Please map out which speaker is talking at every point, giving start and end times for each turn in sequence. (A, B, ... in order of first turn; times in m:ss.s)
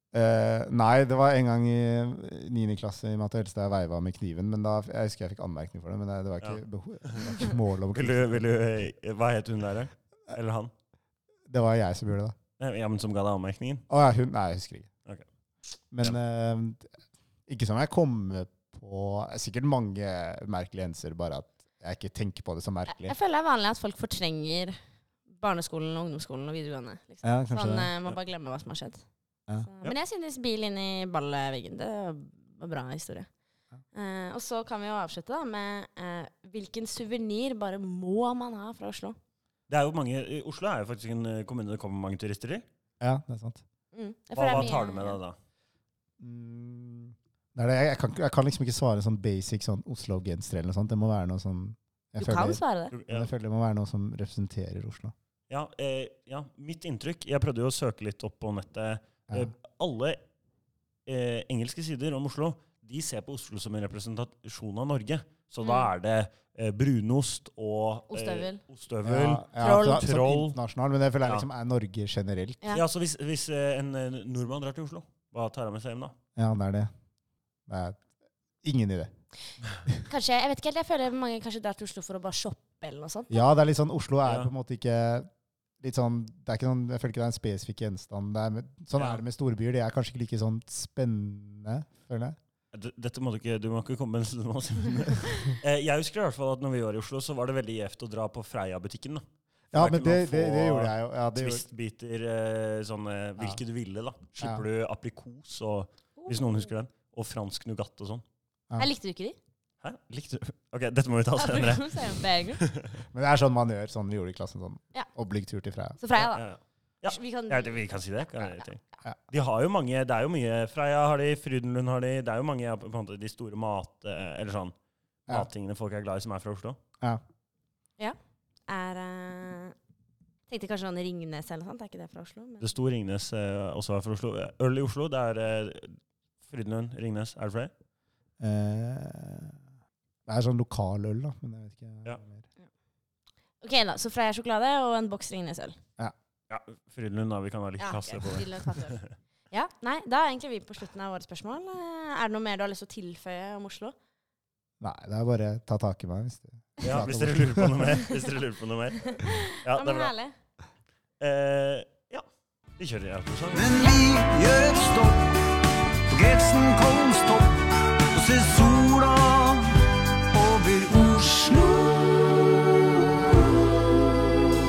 0:00.1-0:08.5 A
0:06.4-0:07.4 B
0:07.9-0:10.7 B
0:11.5-0:12.4 A
0:12.6-0:13.8 B
0:13.9-0:14.9 A
0:15.9-0:16.9 A
0:17.5-0:23.1 A
0:22.9-0:24.8 C
0:25.3-0:29.0 C
0:27.2-0:27.9 A
0:29.6-0:33.3 C
0:33.9-0:39.2 C
0:39.7-0:42.6 B
0:43.0-0:43.6 A
0:43.9-0:45.2 C
0:44.4-0:45.4 B
0:46.2-0:55.1 A
0:52.2-0:52.9 C
0:52.9-0:53.3 B
0:55.5-1:00.2 B
1:01.0-1:10.6 B
1:05.6-1:05.9 C
1:08.1-1:08.6 C
1:09.0-1:12.6 A
1:09.6-1:10.0 C
1:12.7-1:16.1 B
1:16.4-1:16.9 A
1:17.7-1:18.0 A
1:18.6-1:19.1 A
1:20.1-1:23.4 C
1:23.3-1:25.3 A
1:25.8-1:32.4 A
1:29.0-1:29.2 B
1:32.7-1:48.2 B
1:39.7-1:41.6 A
1:46.2-1:46.7 C
1:48.8-1:49.4 C
1:49.8-1:52.1 B
1:51.4-1:52.6 C
1:52.6-1:52.9 B
1:53.1-1:56.0 A
1:56.0-1:56.4 C
1:56.2-2:04.7 B
1:57.0-1:57.8 C
2:05.3-2:06.8 B
2:08.7-2:09.7 C
2:10.5-2:12.7 C
2:12.6-2:17.7 B
2:18.4-2:19.6 A
2:20.3-2:22.4 A
2:23.6-2:25.8 C
2:26.5-2:29.1 B
2:27.8-2:29.0 C
2:29.5-2:33.9 C
2:34.8-2:37.9 A
2:36.8-2:40.1 B
2:39.0-2:40.3 C
2:41.2-2:42.2 B
2:42.8-2:43.7 B
2:43.5-2:53.6 D